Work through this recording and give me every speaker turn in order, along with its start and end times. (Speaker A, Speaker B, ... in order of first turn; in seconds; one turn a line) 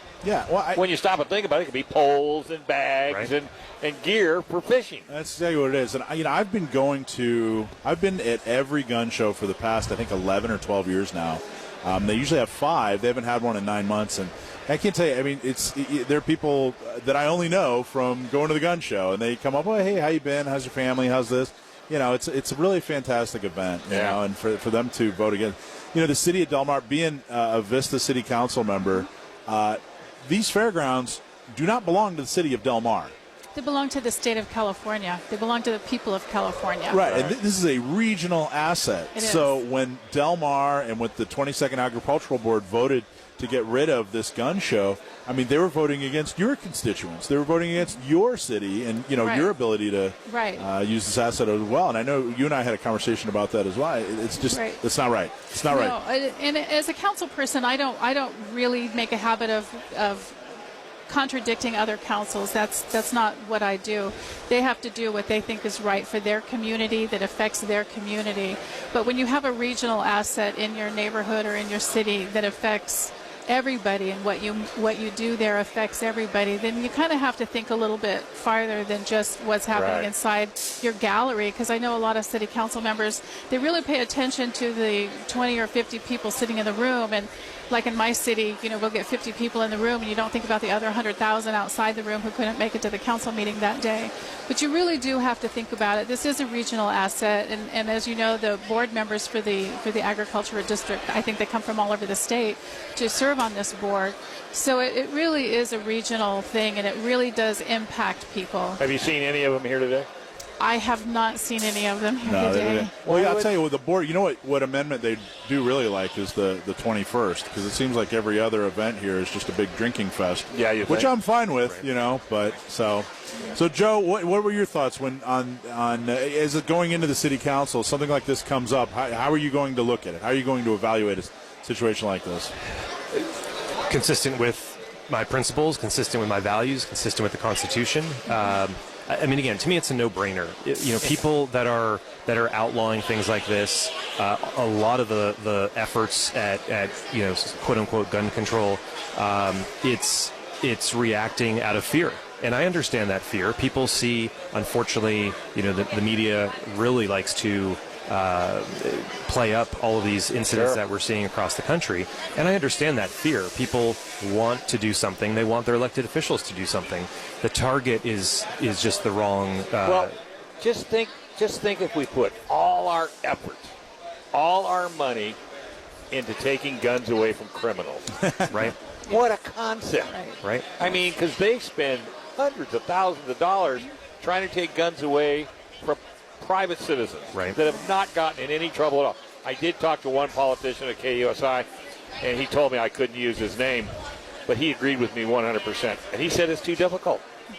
Speaker A: 0.2-0.8
Speaker B: 0.7-5.0
Speaker A: 5.1-33.1
Speaker B: 23.9-24.2
Speaker C: 33.5-37.1
Speaker A: 36.9-56.0
Speaker B: 37.1-37.4
Speaker C: 39.1-39.6
Speaker C: 49.2-49.5
Speaker C: 50.2-50.7
Speaker C: 54.4-54.8
Speaker C: 55.6-60.4
Speaker C: 61.1-108.8
Speaker B: 79.7-80.1
Speaker B: 108.8-110.1
Speaker C: 110.6-112.9
Speaker A: 112.2-132.5
Speaker B: 113.0-113.5
Speaker B: 120.5-121.2
Speaker D: 133.9-170.1
Speaker B: 160.5-160.8
Speaker B: 169.8-173.7
Speaker B: 174.3-175.4
Speaker B: 176.1-178.1
Speaker A: 178.2-178.7
Speaker D: 178.5-178.8
Speaker B: 179.1-180.2
Speaker C: 180.1-180.4
Speaker D: 180.4-180.8
Speaker B: 180.8-191.7
Speaker B: 192.2-193.9
Speaker B: 194.5-197.2